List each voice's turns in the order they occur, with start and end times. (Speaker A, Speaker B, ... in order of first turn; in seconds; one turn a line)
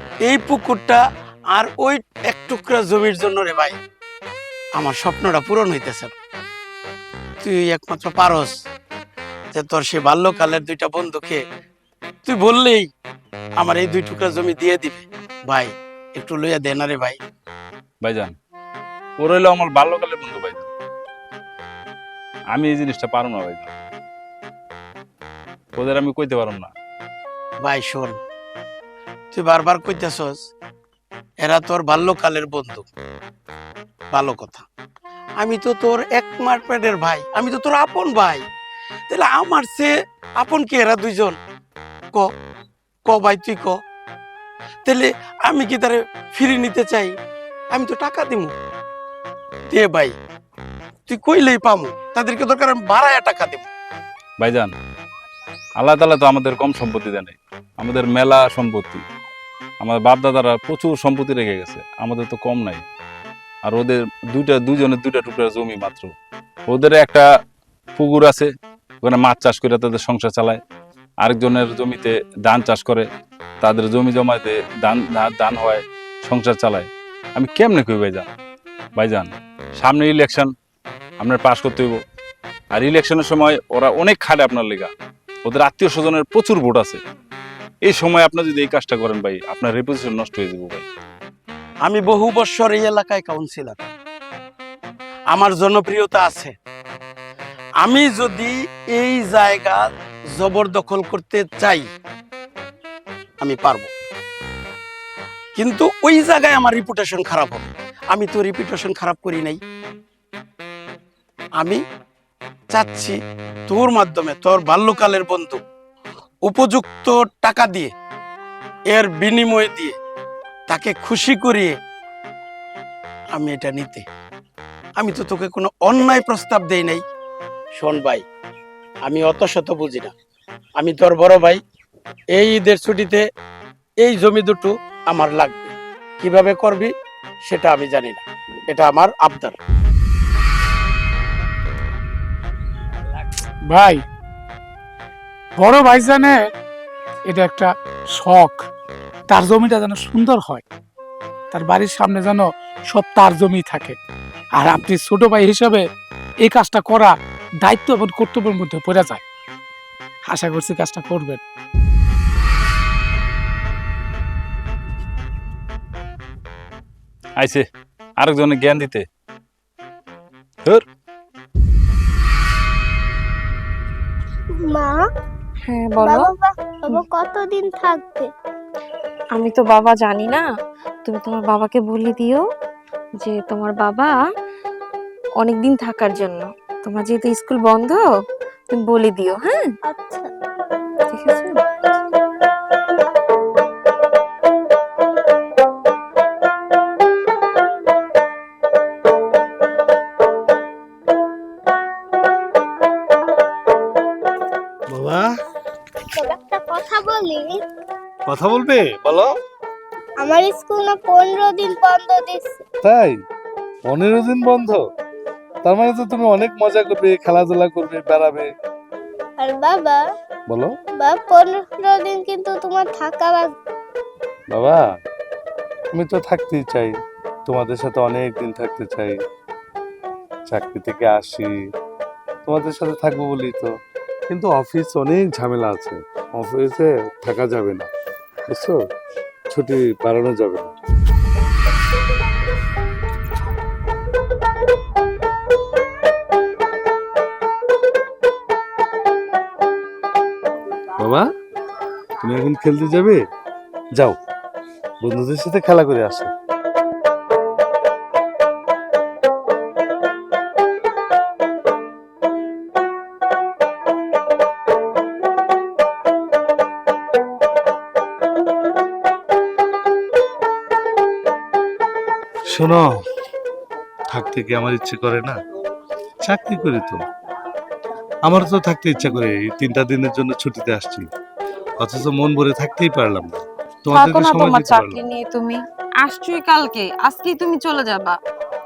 Speaker A: 0.2-1.0
Speaker A: 1.6-3.7
Speaker A: 4.8-6.1
Speaker A: 7.4-8.5
Speaker A: 9.5-11.4
Speaker A: 12.3-12.8
Speaker A: 13.6-15.0
Speaker A: 15.5-17.2
Speaker B: 18.0-18.3
Speaker B: 19.2-20.7
Speaker B: 22.5-23.7
Speaker B: 25.8-26.7
Speaker A: 27.6-28.2
Speaker A: 29.3-30.4
Speaker A: 31.4-32.9
Speaker A: 34.1-34.6
Speaker A: 35.4-38.4
Speaker A: 39.1-39.9
Speaker A: 40.4-41.4
Speaker A: 43.1-43.7
Speaker A: 44.9-47.1
Speaker A: 47.7-48.5
Speaker A: 49.7-50.1
Speaker A: 51.1-53.7
Speaker B: 54.4-54.7
Speaker B: 55.8-59.0
Speaker B: 59.8-62.8
Speaker B: 63.6-66.1
Speaker B: 66.7-67.2
Speaker B: 68.0-68.5
Speaker B: 69.0-70.6
Speaker B: 71.2-73.0
Speaker B: 73.6-78.3
Speaker B: 79.0-80.5
Speaker B: 81.2-82.0
Speaker B: 82.7-84.9
Speaker B: 85.5-87.0
Speaker B: 87.8-90.8
Speaker A: 91.9-93.8
Speaker A: 95.3-96.5
Speaker A: 97.8-99.8
Speaker A: 100.4-101.8
Speaker A: 103.4-103.9
Speaker A: 105.6-109.6
Speaker A: 112.7-113.1
Speaker A: 113.7-115.6
Speaker A: 116.5-117.9
Speaker A: 118.9-120.0
Speaker A: 120.7-121.7
Speaker A: 123.4-124.0
Speaker A: 125.0-127.0
Speaker A: 127.8-128.2
Speaker A: 129.1-130.1
Speaker A: 130.8-131.6
Speaker A: 132.4-133.2
Speaker A: 134.1-136.9
Speaker A: 137.5-139.5
Speaker C: 143.7-144.0
Speaker C: 145.6-146.5
Speaker C: 147.3-148.6
Speaker C: 149.3-150.6
Speaker C: 151.5-154.0
Speaker C: 154.6-155.8
Speaker C: 156.4-159.2
Speaker C: 160.3-161.4
Speaker B: 167.4-167.7
Speaker B: 168.2-169.0
Speaker D: 174.6-175.0
Speaker E: 175.7-176.3
Speaker D: 176.0-178.3
Speaker E: 179.3-180.5
Speaker E: 181.0-182.4
Speaker E: 183.2-184.1
Speaker E: 185.4-188.0
Speaker E: 188.7-189.7
Speaker D: 189.9-190.3
Speaker E: 191.1-191.6
Speaker F: 204.9-205.3
Speaker D: 206.1-207.6
Speaker F: 208.3-209.3
Speaker D: 210.2-212.6
Speaker F: 212.8-213.2
Speaker F: 213.9-214.8
Speaker F: 215.6-218.5
Speaker D: 219.4-220.0
Speaker F: 220.5-220.7
Speaker D: 221.0-223.5
Speaker F: 224.5-224.8
Speaker F: 225.9-229.2
Speaker F: 230.5-231.5
Speaker F: 232.4-233.7
Speaker F: 234.3-237.9
Speaker F: 238.5-238.8
Speaker F: 239.5-240.7
Speaker F: 251.0-251.3
Speaker F: 252.2-253.2
Speaker F: 255.0-256.3
Speaker F: 272.5-273.0
Speaker F: 274.1-275.4
Speaker F: 276.2-277.0
Speaker F: 278.2-281.1
Speaker F: 281.8-285.0
Speaker E: 283.9-288.2